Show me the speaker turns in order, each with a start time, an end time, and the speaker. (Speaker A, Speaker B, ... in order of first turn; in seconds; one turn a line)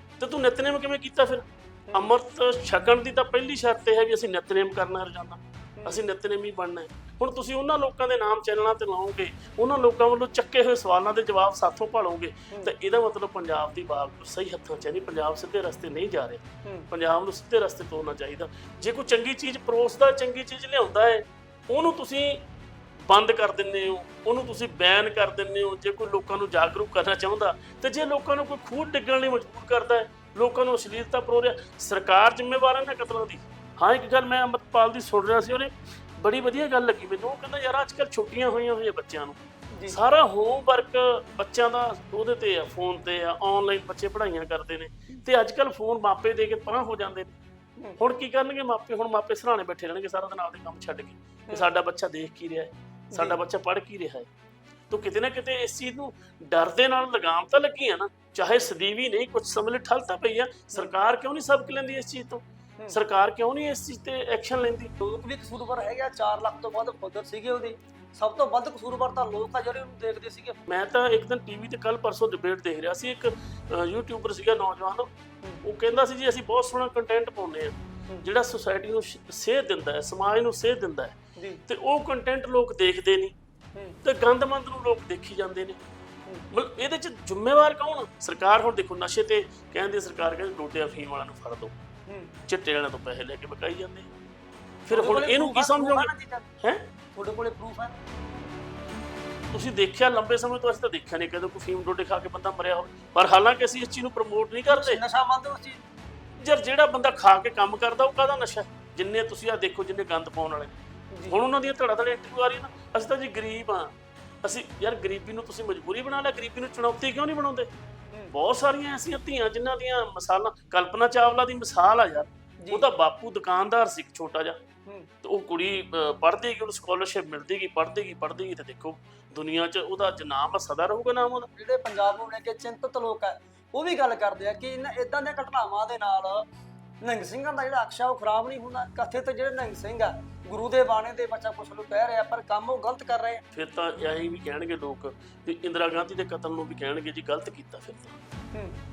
Speaker A: 0.2-22.4
Speaker B: 1.9-2.1
Speaker A: 23.1-47.4
Speaker A: 48.0-54.3
Speaker B: 53.1-53.4
Speaker A: 54.9-64.9
Speaker B: 65.0-70.6
Speaker A: 70.7-75.1
Speaker A: 75.6-83.3
Speaker B: 81.3-81.6
Speaker A: 84.0-85.8
Speaker A: 86.5-91.7
Speaker B: 92.1-92.3
Speaker A: 92.5-94.1
Speaker A: 94.8-96.1
Speaker B: 94.9-96.5
Speaker A: 96.6-96.8
Speaker B: 97.1-97.9
Speaker A: 99.5-105.0
Speaker B: 104.7-105.8
Speaker A: 106.4-117.7
Speaker A: 118.3-124.6
Speaker B: 122.6-122.8
Speaker A: 125.2-131.5
Speaker B: 131.5-136.4
Speaker B: 137.0-143.4
Speaker A: 143.5-148.2